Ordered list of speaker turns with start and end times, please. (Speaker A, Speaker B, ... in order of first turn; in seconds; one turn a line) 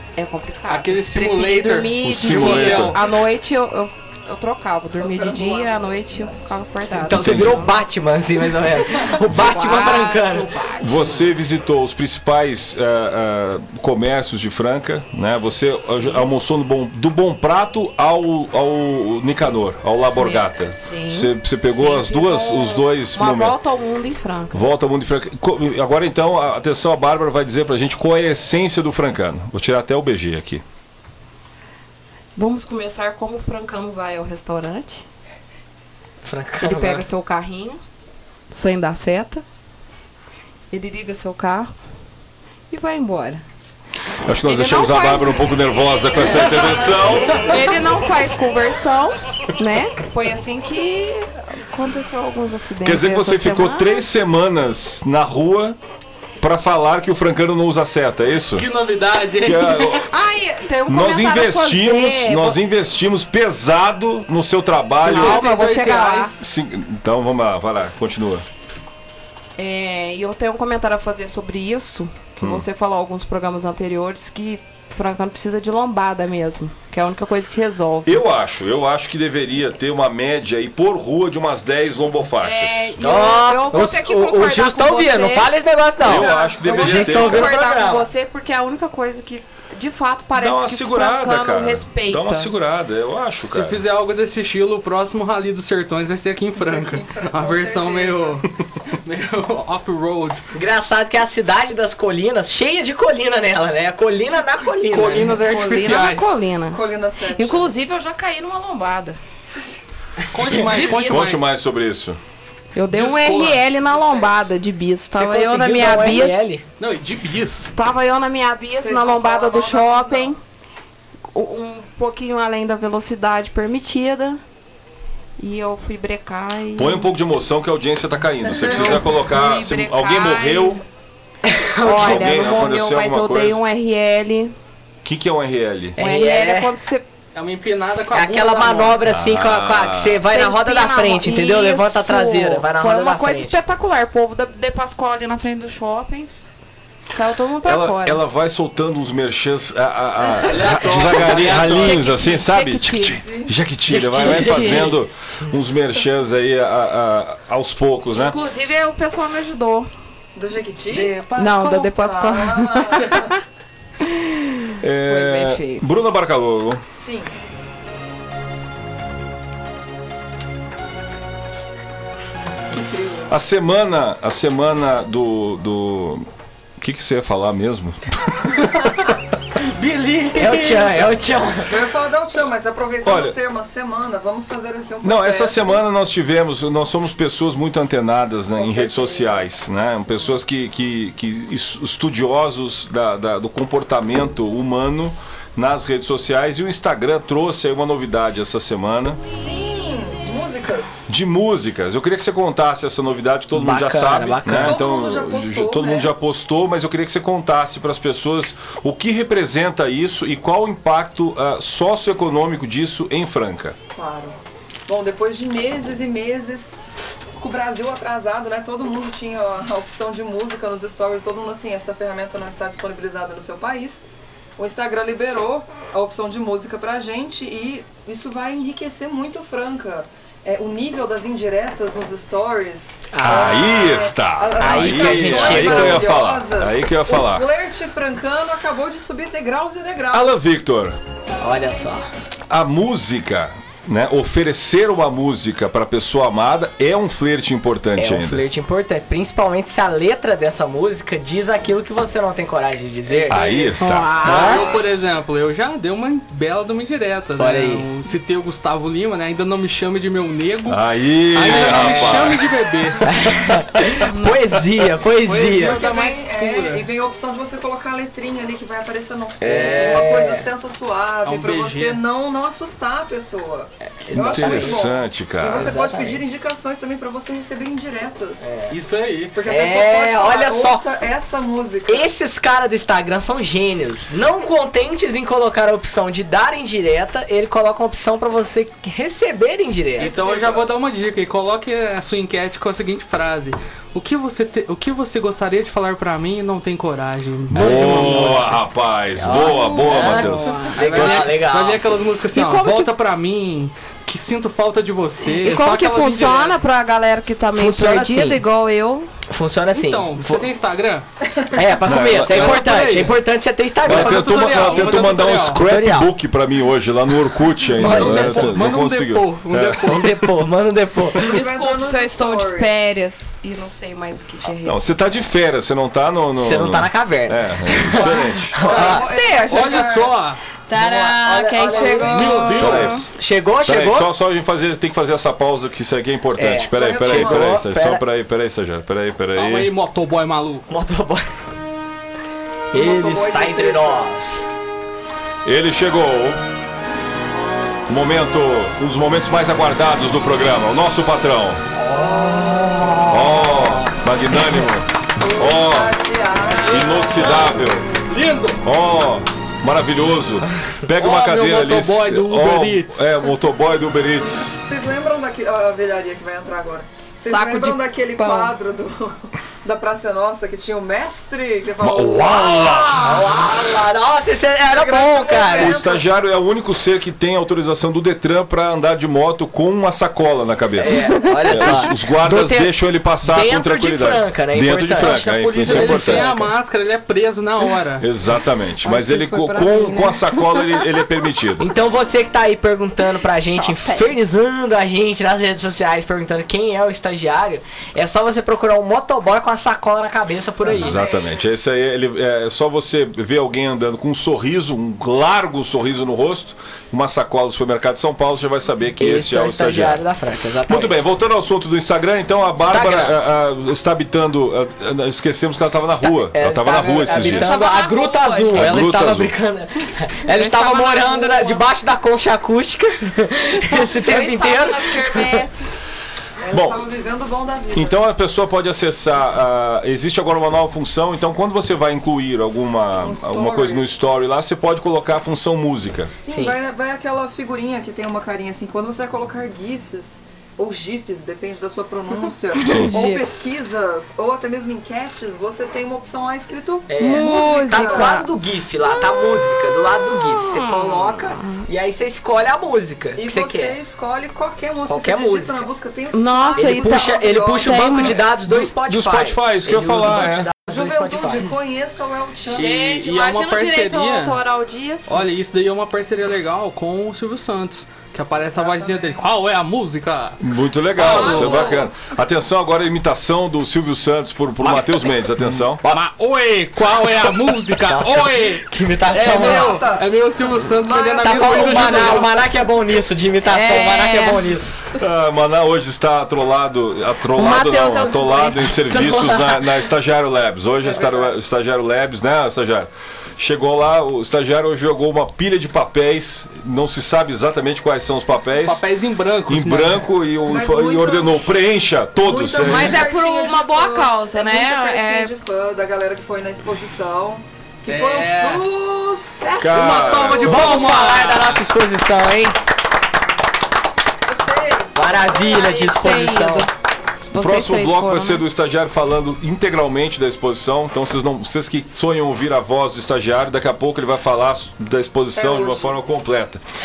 Speaker A: 0.2-7.8
Speaker B: 0.7-3.1
Speaker C: 2.0-3.0
Speaker D: 5.0-6.5
Speaker E: 7.0-10.5
Speaker C: 7.1-7.7
Speaker A: 9.3-11.3
Speaker C: 10.8-23.6
Speaker A: 20.0-24.7
Speaker C: 24.5-30.6
Speaker A: 32.4-35.0
Speaker E: 36.2-37.0
Speaker A: 36.6-37.8
Speaker A: 38.5-39.4
Speaker A: 40.7-41.7
Speaker A: 42.7-43.4
Speaker C: 44.2-47.5
Speaker A: 44.4-45.4
Speaker A: 46.2-46.7
Speaker A: 47.4-53.9
Speaker C: 52.8-55.8
Speaker C: 56.4-58.7
Speaker B: 58.5-60.0
Speaker C: 59.4-60.1
Speaker A: 59.9-62.6
Speaker C: 60.9-65.5
Speaker B: 65.0-66.4
Speaker A: 65.0-66.3
Speaker C: 66.4-68.5
Speaker A: 69.6-78.2
Speaker C: 72.4-72.7
Speaker C: 78.1-82.9
Speaker A: 82.4-85.5
Speaker E: 83.0-88.1
Speaker C: 86.0-87.5
Speaker D: 86.1-86.7
Speaker A: 86.3-92.5
Speaker C: 90.3-93.8
Speaker B: 93.4-100.4
Speaker D: 96.6-98.4
Speaker E: 100.5-105.4
Speaker B: 104.9-106.3
Speaker A: 105.0-109.2
Speaker D: 106.7-107.7
Speaker B: 110.3-111.4
Speaker E: 110.4-110.7
Speaker A: 110.6-111.4
Speaker C: 111.1-112.2
Speaker A: 112.8-116.5
Speaker B: 112.9-113.7
Speaker D: 113.8-114.5
Speaker E: 115.1-116.6
Speaker B: 116.8-117.7
Speaker A: 117.7-120.4
Speaker D: 118.8-120.3
Speaker A: 121.3-124.4
Speaker A: 125.4-127.1
Speaker C: 126.8-130.8
Speaker D: 128.5-129.1
Speaker A: 128.7-130.8
Speaker E: 131.4-132.6
Speaker A: 131.8-134.5
Speaker C: 131.9-133.6
Speaker C: 135.0-136.0
Speaker E: 136.0-136.7
Speaker A: 136.0-137.1
Speaker B: 137.3-139.0
Speaker E: 138.1-143.6
Speaker C: 139.1-140.2
Speaker A: 140.2-146.4
Speaker A: 147.1-148.2
Speaker C: 147.6-158.4
Speaker B: 150.5-152.1
Speaker A: 150.9-153.2
Speaker D: 153.2-153.5
Speaker A: 153.9-155.0
Speaker B: 154.5-154.9
Speaker A: 158.1-159.9
Speaker D: 160.3-163.3
Speaker A: 160.9-163.3
Speaker A: 164.0-165.8
Speaker C: 164.8-166.8
Speaker D: 167.0-167.3
Speaker D: 172.7-173.3
Speaker C: 173.3-176.3
Speaker C: 176.8-178.5
Speaker B: 179.6-181.1
Speaker E: 180.3-181.7
Speaker D: 181.7-185.8
Speaker C: 183.0-183.4
Speaker C: 185.0-199.2
Speaker D: 188.6-190.4
Speaker D: 199.3-201.1
Speaker C: 201.1-213.8
Speaker E: 203.5-204.8
Speaker D: 204.5-206.1
Speaker D: 213.9-224.1
Speaker D: 224.6-240.4
Speaker E: 233.1-233.8
Speaker C: 233.2-237.5
Speaker E: 234.6-236.2
Speaker C: 240.1-241.0
Speaker E: 241.4-242.1
Speaker D: 241.6-241.9
Speaker C: 242.5-248.4
Speaker E: 248.0-254.7
Speaker C: 253.3-254.2
Speaker B: 253.9-263.1
Speaker D: 254.3-255.0
Speaker E: 257.4-257.9
Speaker C: 260.7-262.4
Speaker E: 263.1-265.8
Speaker A: 263.9-264.6
Speaker B: 265.2-266.9
Speaker D: 265.5-278.5
Speaker E: 269.4-270.5
Speaker B: 269.4-270.2
Speaker B: 271.2-272.0
Speaker E: 274.1-274.8
Speaker C: 274.2-275.7
Speaker E: 275.5-276.2
Speaker E: 278.4-278.8
Speaker B: 278.7-279.4
Speaker D: 279.3-282.1
Speaker E: 279.4-280.8
Speaker E: 281.9-290.1
Speaker D: 290.0-290.7
Speaker B: 290.0-298.6
Speaker C: 297.5-301.3
Speaker E: 297.6-298.3
Speaker E: 299.2-301.8
Speaker B: 300.0-306.6
Speaker A: 302.3-302.9
Speaker A: 305.3-309.1
Speaker E: 307.6-308.4
Speaker E: 309.3-310.5
Speaker B: 309.7-311.1
Speaker E: 311.5-314.5
Speaker C: 311.8-312.7
Speaker B: 312.1-313.1
Speaker B: 313.8-315.6
Speaker C: 313.8-319.9
Speaker E: 315.6-316.1
Speaker B: 317.8-320.3
Speaker E: 317.8-318.6
Speaker E: 319.8-321.4
Speaker D: 321.2-322.7
Speaker A: 321.3-325.1
Speaker C: 324.6-328.6
Speaker E: 326.4-329.1
Speaker D: 327.9-330.2
Speaker A: 328.7-329.9
Speaker B: 329.5-330.4
Speaker A: 330.7-333.1
Speaker E: 330.7-332.4
Speaker D: 330.8-332.9
Speaker B: 332.1-333.0
Speaker C: 332.6-333.0
Speaker E: 333.0-334.1
Speaker C: 333.6-339.7
Speaker E: 336.4-338.0
Speaker D: 336.7-337.6
Speaker B: 339.3-340.7
Speaker E: 340.7-341.2
Speaker E: 342.7-344.4
Speaker D: 342.7-344.1
Speaker C: 345.4-346.4
Speaker C: 347.9-351.6
Speaker E: 351.8-353.9
Speaker C: 353.1-355.9
Speaker D: 355.2-357.7
Speaker C: 356.6-357.8
Speaker B: 356.7-358.6
Speaker C: 358.6-364.6
Speaker B: 361.0-363.1
Speaker D: 364.6-373.2
Speaker A: 367.3-368.6
Speaker C: 371.8-373.3
Speaker E: 373.0-375.8
Speaker D: 374.7-376.1
Speaker C: 375.5-386.3
Speaker E: 380.8-386.4
Speaker B: 385.0-388.1
Speaker C: 388.0-391.7
Speaker A: 388.8-390.9
Speaker E: 391.6-401.0
Speaker A: 393.3-394.1
Speaker D: 400.6-401.4
Speaker C: 400.7-410.0
Speaker E: 409.0-411.0
Speaker C: 410.7-417.6
Speaker E: 412.7-413.1
Speaker E: 415.9-425.4
Speaker A: 417.1-418.8
Speaker C: 418.5-419.3
Speaker A: 420.3-421.7
Speaker A: 423.7-425.9
Speaker D: 426.4-428.0
Speaker C: 426.5-426.8
Speaker C: 427.7-436.1
Speaker D: 432.9-434.1
Speaker D: 436.1-448.1
Speaker E: 436.3-436.6
Speaker A: 442.6-443.5
Speaker C: 442.6-442.9
Speaker E: 446.9-453.8
Speaker A: 447.0-448.3
Speaker A: 450.3-451.6
Speaker D: 453.2-458.2
Speaker E: 454.9-455.7
Speaker A: 456.1-458.2
Speaker E: 456.6-461.5
Speaker C: 458.5-460.5
Speaker D: 460.7-462.7
Speaker B: 462.5-464.4
Speaker A: 462.5-465.3
Speaker B: 465.1-470.4
Speaker D: 468.4-469.1
Speaker C: 470.4-475.8
Speaker B: 471.0-471.7
Speaker D: 471.0-471.8
Speaker B: 475.8-482.3
Speaker E: 477.8-479.8
Speaker D: 479.1-480.1
Speaker D: 480.7-482.4
Speaker E: 481.2-484.8
Speaker A: 483.5-484.5
Speaker C: 485.0-498.8
Speaker A: 487.4-488.7
Speaker E: 488.8-489.6
Speaker D: 490.8-491.3
Speaker B: 498.6-500.1
Speaker C: 499.5-503.1
Speaker D: 500.4-501.4
Speaker D: 502.2-510.8
Speaker A: 502.6-505.3
Speaker B: 507.9-508.7
Speaker C: 509.6-510.8
Speaker B: 509.7-511.6
Speaker E: 510.4-512.6
Speaker D: 514.3-515.6
Speaker E: 514.9-516.7
Speaker A: 515.4-516.7
Speaker A: 517.3-518.4
Speaker C: 517.4-526.6
Speaker D: 525.4-526.0